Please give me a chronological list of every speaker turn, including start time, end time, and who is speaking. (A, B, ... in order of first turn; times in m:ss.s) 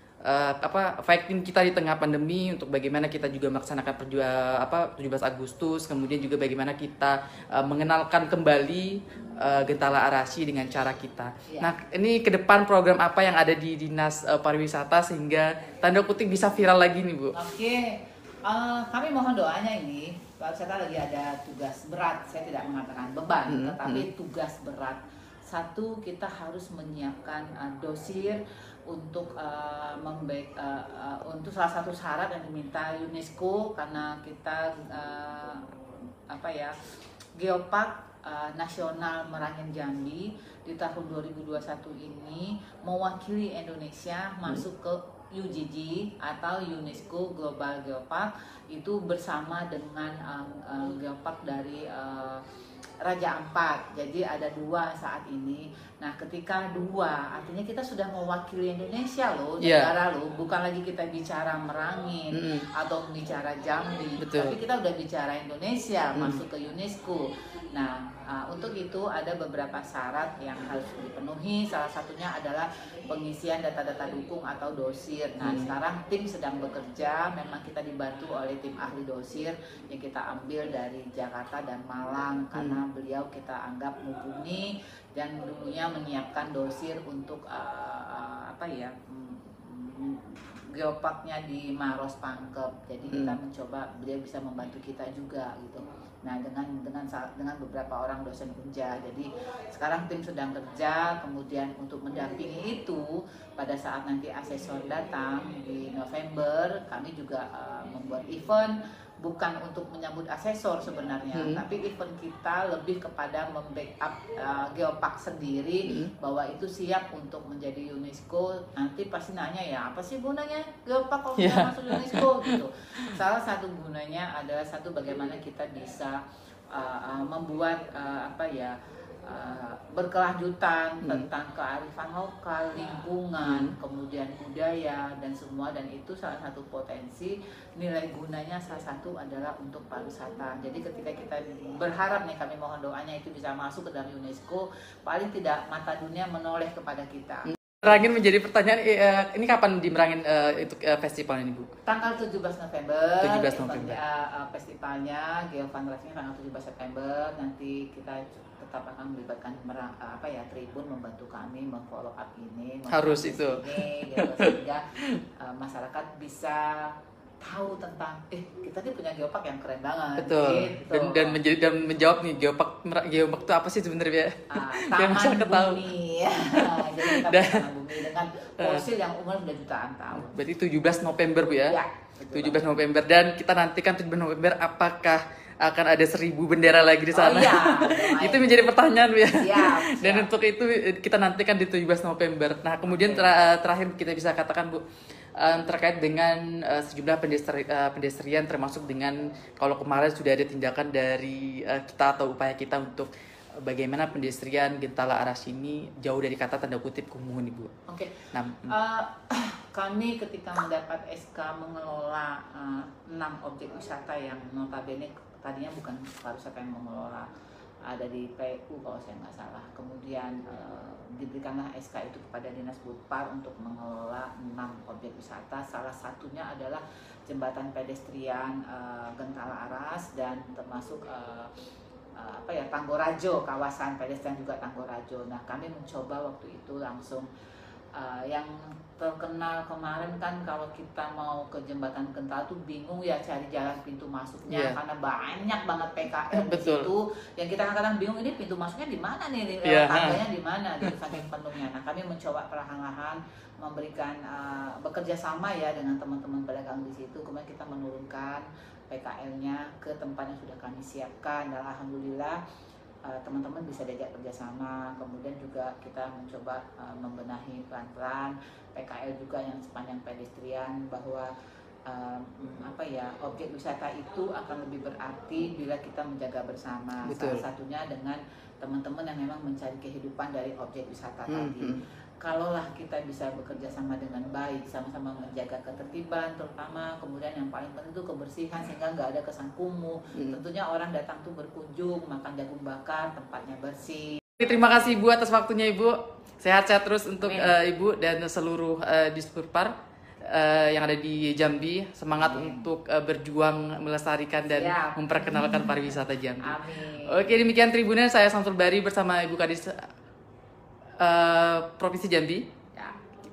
0:00.2-0:17.4 A
0:11.5-0:11.7 B
0:17.3-0:35.7 B
0:23.5-0:24.0 A
0:36.3-0:36.7 B
0:37.4-0:52.4 B
0:53.0-2:06.2 B
0:59.6-0:59.9 A
1:02.3-1:02.6 A
1:04.2-1:04.6 A
1:15.4-1:15.7 A
1:33.1-1:33.4 A
1:51.3-1:51.6 A
1:55.9-1:56.1 A
2:01.4-2:02.6 A
2:06.7-2:08.8 B
2:09.2-2:27.5 B
2:13.4-2:13.7 A
2:27.4-2:31.7 A
2:31.8-2:44.8 B
2:33.2-2:34.0 A
2:42.9-2:44.5 A
2:45.4-2:46.9 B
2:47.4-2:51.4 B
2:50.2-2:55.8 A
2:54.5-3:00.4 B
2:56.5-2:57.7 A
3:00.2-3:01.8 A
3:01.7-3:02.7 B
3:02.3-3:14.8 A
3:07.1-3:08.6 B
3:09.3-3:10.3 B
3:12.8-3:13.3 B
3:15.4-3:27.7 A
3:27.9-3:37.3 B
3:28.3-3:28.8 A
3:37.9-3:51.5 B
3:52.2-3:57.3 B
3:57.9-4:22.4 B
4:04.5-4:04.8 A
4:06.3-4:06.9 A
4:09.6-4:10.2 A
4:23.1-4:31.3 B
4:31.9-4:54.2 B
4:37.0-4:37.4 A
4:41.3-4:41.8 A
4:54.4-4:59.7 A
4:57.2-4:57.5 B
5:00.2-5:09.9 A
5:02.2-5:02.7 B
5:04.5-5:07.4 B
5:11.0-5:12.5 A